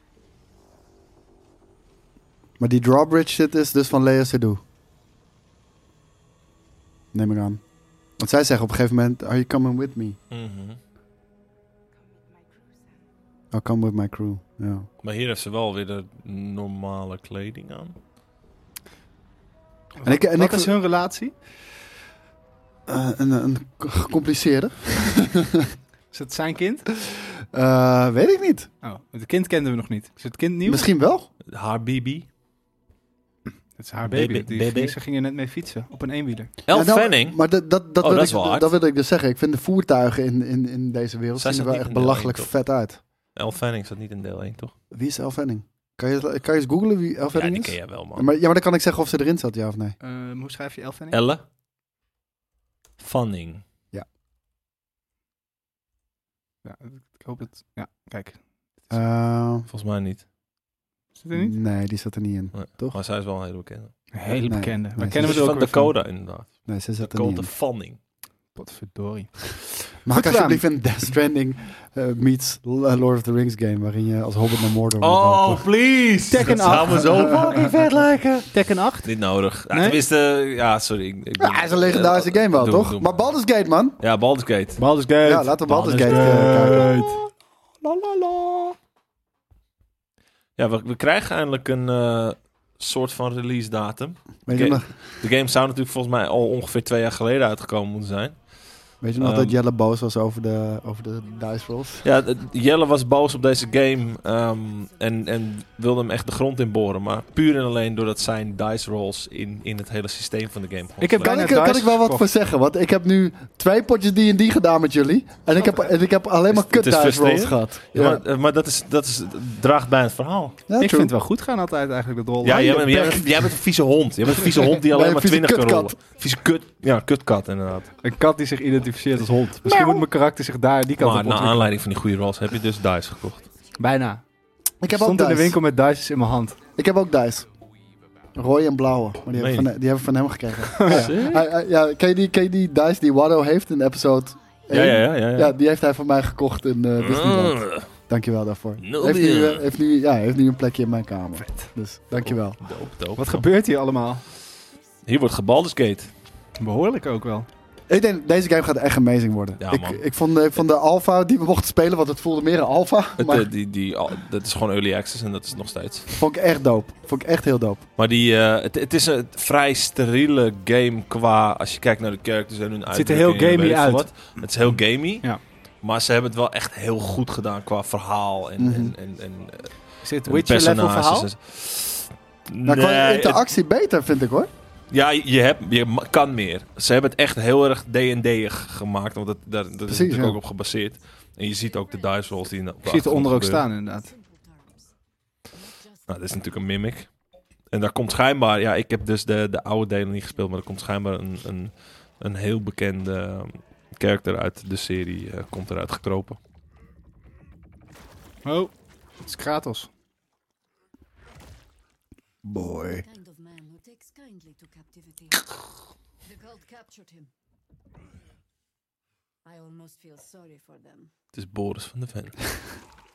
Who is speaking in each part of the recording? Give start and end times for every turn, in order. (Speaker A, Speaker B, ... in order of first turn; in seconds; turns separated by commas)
Speaker A: 2.6-4.6, Speaker A: 7.1-7.6, Speaker A: 8.2-10.2, Speaker B: 10.3-10.8, Speaker C: 12.0-13.0, Speaker A: 13.5-14.9, Speaker B: 15.0-18.0, Speaker D: 20.0-21.3, Speaker A: 20.0-20.7, Speaker A: 22.9-25.7, Speaker D: 26.1-26.8, Speaker A: 26.9-28.7, Speaker D: 28.8-30.9, Speaker A: 30.6-31.3, Speaker B: 31.5-32.2, Speaker D: 33.8-36.5, Speaker B: 34.1-35.0, Speaker B: 36.6-37.4, Speaker A: 36.7-43.0, Speaker B: 38.0-38.7, Speaker B: 41.4-42.5, Speaker B: 43.3-44.7, Speaker A: 44.9-50.0, Speaker B: 47.3-48.3, Speaker D: 50.0-51.2, Speaker B: 51.1-51.4, Speaker B: 53.0-53.6, Speaker D: 56.6-58.4, Speaker A: 58.9-59.6, Speaker B: 59.7-60.2, Speaker D: 61.2-61.6, Speaker A: 61.3-63.0, Speaker B: 62.5-64.0, Speaker D: 64.1-65.9, Speaker A: 64.4-65.4, Speaker B: 65.2-68.0, Speaker A: 66.7-67.5, Speaker D: 68.5-70.6, Speaker A: 70.0-75.7, Speaker B: 75.0-78.5, Speaker D: 76.3-77.4, Speaker A: 77.1-77.5, Speaker D: 78.5-79.1, Speaker B: 79.0-83.2, Speaker D: 79.7-80.0, Speaker A: 81.4-84.0, Speaker B: 84.0-84.8, Speaker D: 84.8-87.2, Speaker A: 85.2-87.0, Speaker B: 85.8-86.5, Speaker A: 87.8-88.7, Speaker B: 90.6-98.4, Speaker A: 94.5-94.9, Speaker A: 99.0-102.0, Speaker B: 99.2-99.6, Speaker C: 101.0-105.7, Speaker B: 102.0-111.3, Speaker C: 110.5-111.2, Speaker D: 111.0-112.3, Speaker A: 111.2-118.2, Speaker B: 116.5-120.6, Speaker A: 120.7-121.1, Speaker D: 120.8-122.9, Speaker B: 122.4-127.9, Speaker A: 122.5-123.3, Speaker A: 124.8-126.0, Speaker C: 125.9-126.3, Speaker C: 127.9-128.1, Speaker D: 128.0-131.7, Speaker A: 129.6-130.1, Speaker B: 131.0-133.4, Speaker C: 133.2-133.8, Speaker D: 133.8-134.2, Speaker A: 134.8-135.6, Speaker D: 134.9-136.6, Speaker A: 136.8-137.4, Speaker A: 138.3-152.6, Speaker B: 139.3-139.7, Speaker D: 140.7-141.1, Speaker B: 140.8-141.5, Speaker C: 144.3-144.7, Speaker B: 144.7-145.5, Speaker B: 147.0-147.9, Speaker B: 148.8-149.6, Speaker B: 152.2-153.4, Speaker D: 153.2-154.2, Speaker B: 155.1-156.1, Speaker D: 156.6-157.5, Speaker A: 157.9-163.5, Speaker B: 159.6-160.0, Speaker B: 163.2-166.1, Speaker C: 165.6-166.2, Speaker A: 166.2-167.8, Speaker B: 168.0-183.4, Speaker D: 172.9-174.4, Speaker A: 178.6-178.9, Speaker D: 180.0-181.3, Speaker A: 182.6-184.5, Speaker B: 184.9-193.7, Speaker C: 189.6-190.0, Speaker A: 189.9-190.4, Speaker C: 190.8-194.9, Speaker D: 192.8-194.1, Speaker C: 195.5-196.5, Speaker B: 196.1-197.1, Speaker B: 197.7-206.4, Speaker D: 208.4-209.9, Speaker A: 212.4-213.1, Speaker C: 212.9-215.5, Speaker C: 216.2-217.3, Speaker C: 219.4-221.1, Speaker B: 221.3-222.4